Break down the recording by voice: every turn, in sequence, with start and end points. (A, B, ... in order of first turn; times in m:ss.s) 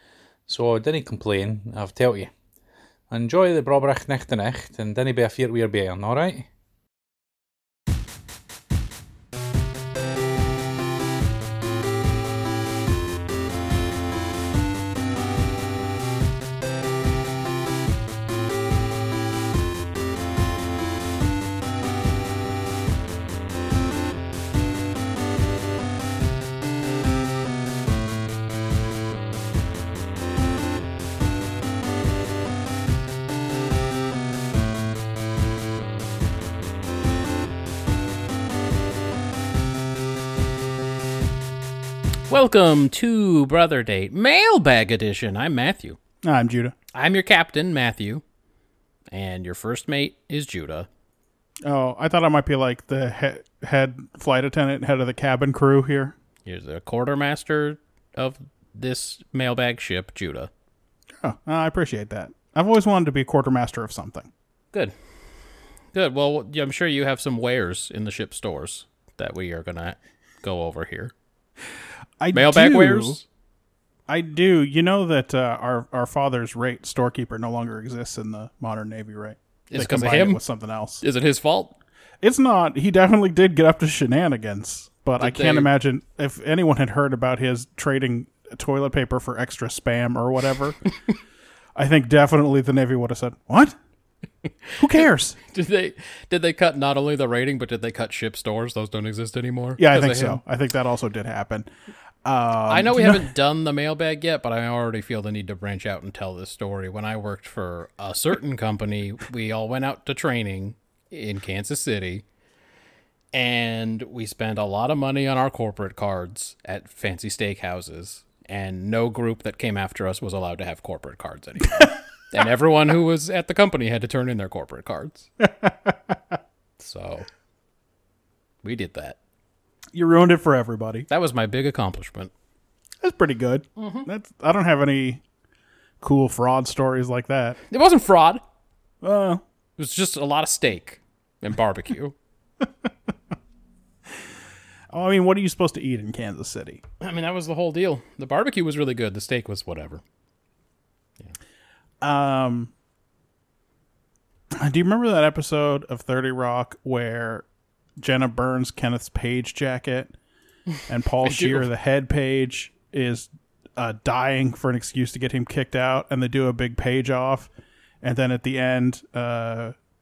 0:00.5-0:02.3 A
0:03.1-0:06.5 A
0:42.3-0:46.0 B
0:46.2-0:46.7 C
0:46.9-0:48.2 B
0:49.1-0:50.9 B
0:51.6-0:56.1 C
0:56.4-1:00.5 B
1:01.2-1:04.3 C
1:05.9-1:11.1 B
1:12.2-1:13.2 C
1:12.3-1:13.2 B
1:14.1-1:21.0 C
1:19.7-1:20.4 B
1:21.0-1:21.8 B
1:22.2-1:30.8 C
1:25.2-1:25.7 B
1:31.7-1:33.8 C
1:34.7-1:40.4 B
1:34.8-1:35.4 C
1:39.8-1:41.7 C
1:42.2-1:43.3 C
1:42.7-1:52.2 B
1:53.3-2:05.3 B
2:05.4-2:06.4 C
2:06.8-2:07.3 B
2:08.6-2:09.2 B
2:09.9-2:11.1 C
2:11.1-2:12.3 B
2:13.0-2:15.2 C
2:13.8-2:14.1 B
2:16.0-2:17.6 C
2:17.7-2:18.4 B
2:19.0-2:19.4 C
2:19.8-2:22.1 B
2:24.9-2:26.8 C
2:27.0-2:30.0 B
2:32.0-2:32.7 C
2:34.5-2:37.4 C
2:38.0-2:40.1 C
2:40.9-2:47.5 C
2:41.2-2:41.7 B
2:48.0-2:49.7 C